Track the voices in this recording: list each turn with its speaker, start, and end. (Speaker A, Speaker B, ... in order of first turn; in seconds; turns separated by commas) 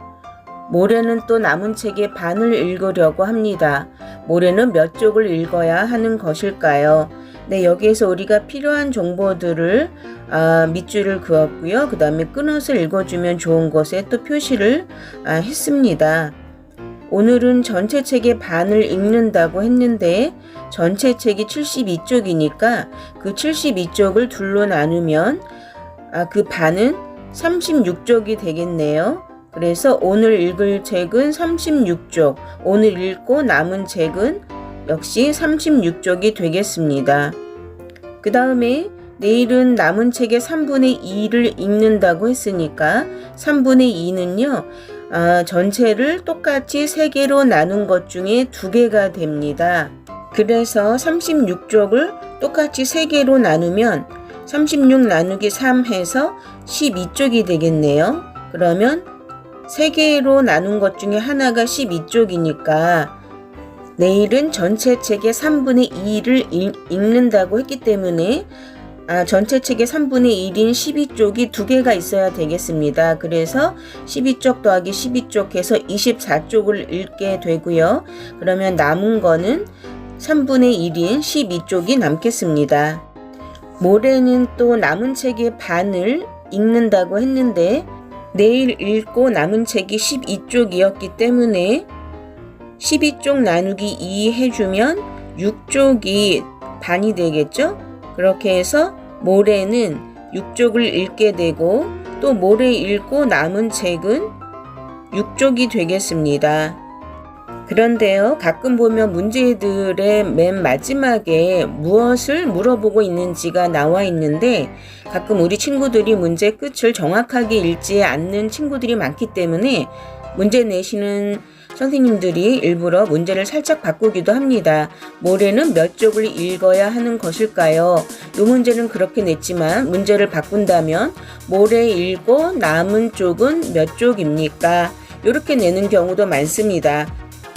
Speaker A: 0.7-16.4, Speaker A: 17.1-25.4, Speaker A: 26.1-37.4, Speaker A: 38.2-59.1, Speaker A: 59.7-63.1, Speaker A: 64.0-68.5, Speaker A: 69.1-83.0, Speaker A: 83.8-91.9, Speaker A: 92.8-104.3, Speaker A: 105.1-106.8, Speaker A: 107.7-137.1